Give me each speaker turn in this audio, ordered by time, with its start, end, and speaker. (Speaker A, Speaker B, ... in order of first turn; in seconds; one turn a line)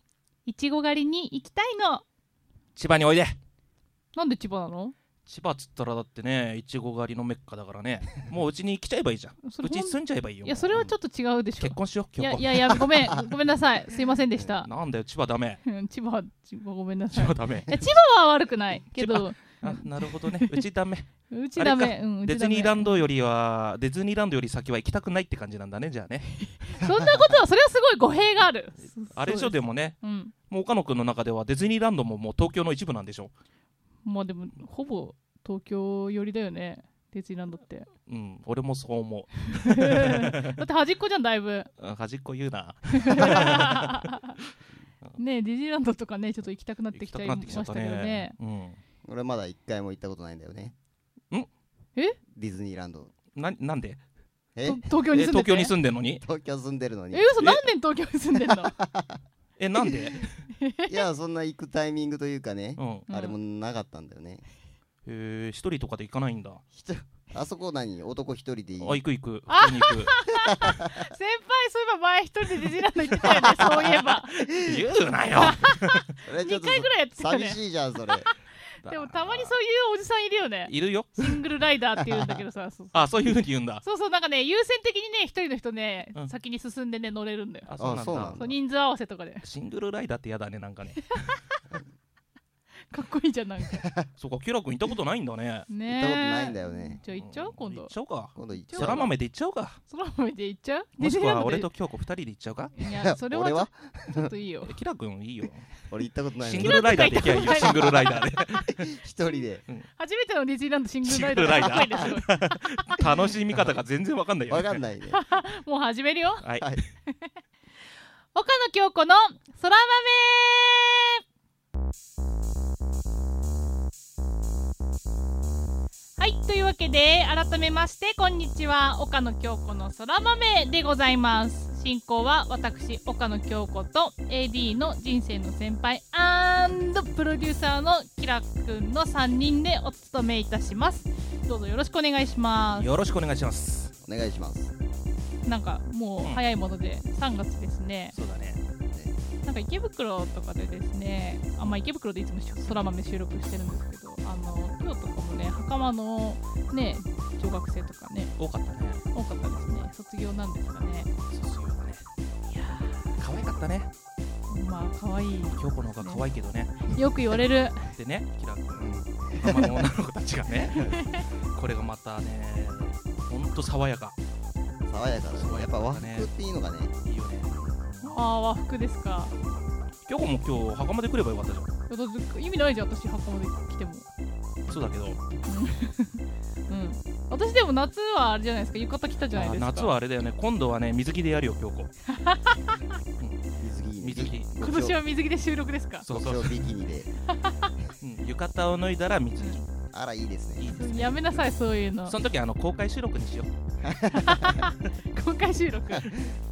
Speaker A: 0.5-2.0
Speaker B: 2.8-3.4
Speaker A: 4.1-5.0
Speaker B: 5.3-10.9
Speaker A: 9.4-14.7
Speaker B: 11.6-13.2
Speaker B: 14.6-15.6
Speaker A: 15.6-20.6
Speaker B: 17.1-17.8
Speaker B: 18.9-26.5
Speaker A: 21.3-23.1
Speaker A: 26.4-30.3
Speaker B: 29.1-33.3
Speaker A: 34.1-37.9
Speaker B: 38.1-40.6
Speaker A: 39.7-41.7
Speaker B: 41.8-44.1
Speaker A: 43.0-44.4
Speaker A: 45.1-48.4
Speaker B: 46.9-48.8
Speaker C: 49.0-50.8
Speaker C: 52.3-53.1
Speaker B: 53.4-54.0
Speaker C: 54.5-54.8
Speaker A: 54.6-55.7
Speaker B: 54.9-56.2
Speaker C: 56.2-57.3
Speaker A: 57.1-58.8
Speaker B: 57.4-57.6
Speaker C: 58.4-59.2
Speaker B: 59.6-60.5
Speaker A: 60.6-61.1
Speaker C: 60.9-64.5
Speaker B: 62.8-63.1
Speaker A: 63.1-63.4
Speaker B: 65.0-66.6
Speaker C: 66.7-69.0
Speaker B: 68.8-70.2
Speaker A: 69.5-74.4
Speaker C: 70.4-70.9
Speaker B: 73.2-76.1
Speaker A: 75.4-77.6
Speaker C: 76.2-78.3
Speaker B: 78.8-79.5
Speaker A: 78.8-87.7
Speaker B: 80.7-81.4
Speaker C: 82.1-82.4
Speaker B: 82.9-83.8
Speaker B: 87.7-88.6
Speaker C: 87.8-88.5
Speaker A: 88.3-89.5
Speaker B: 89.4-91.4
Speaker A: 92.9-93.9
Speaker B: 94.2-95.7
Speaker A: 95.7-97.9
Speaker C: 95.9-97.0
Speaker B: 97.1-99.8
Speaker C: 98.3-99.1
Speaker A: 98.5-99.1
Speaker A: 99.9-101.7
Speaker B: 101.0-102.7
Speaker A: 102.7-104.8
Speaker C: 102.9-104.3
Speaker B: 104.7-105.7
Speaker C: 105.9-109.6
Speaker B: 106.4-108.9
Speaker A: 106.6-108.4
Speaker A: 110.0-113.0
Speaker B: 111.0-114.8
Speaker C: 111.5-112.1
Speaker C: 114.5-115.2
Speaker A: 115.1-116.5
Speaker B: 116.4-116.8
Speaker A: 117.1-117.4
Speaker A: 118.3-121.2
Speaker A: 126.2-142.9
Speaker B: 142.7-143.9
Speaker C: 144.0-144.7
Speaker A: 145.5-148.2
Speaker B: 148.1-148.6
Speaker A: 149.4-158.3
Speaker B: 158.4-159.1
Speaker A: 159.1-161.1
Speaker B: 161.3-162.1
Speaker A: 162.5-163.1
Speaker B: 163.2-163.9
Speaker A: 164.5-166.2
Speaker B: 165.5-166.9
Speaker A: 166.8-167.9
Speaker B: 167.8-174.2
Speaker C: 168.8-169.8
Speaker A: 170.7-171.2
Speaker C: 174.9-176.9
Speaker B: 175.3-176.3
Speaker B: 177.0-178.2
Speaker A: 178.0-179.3
Speaker B: 180.1-181.7
Speaker A: 181.9-184.1
Speaker B: 184.7-185.2
Speaker A: 185.5-189.9
Speaker B: 189.3-191.9
Speaker A: 192.1-193.0
Speaker B: 193.2-193.4
Speaker C: 193.6-195.0
Speaker B: 194.0-194.5
Speaker A: 194.6-196.1
Speaker B: 196.0-196.7
Speaker C: 196.1-197.1
Speaker A: 197.3-197.7
Speaker B: 198.0-199.7
Speaker C: 199.9-200.7
Speaker B: 200.6-201.5
Speaker A: 200.7-202.2
Speaker B: 202.1-203.5
Speaker C: 203.8-204.5
Speaker A: 204.1-206.2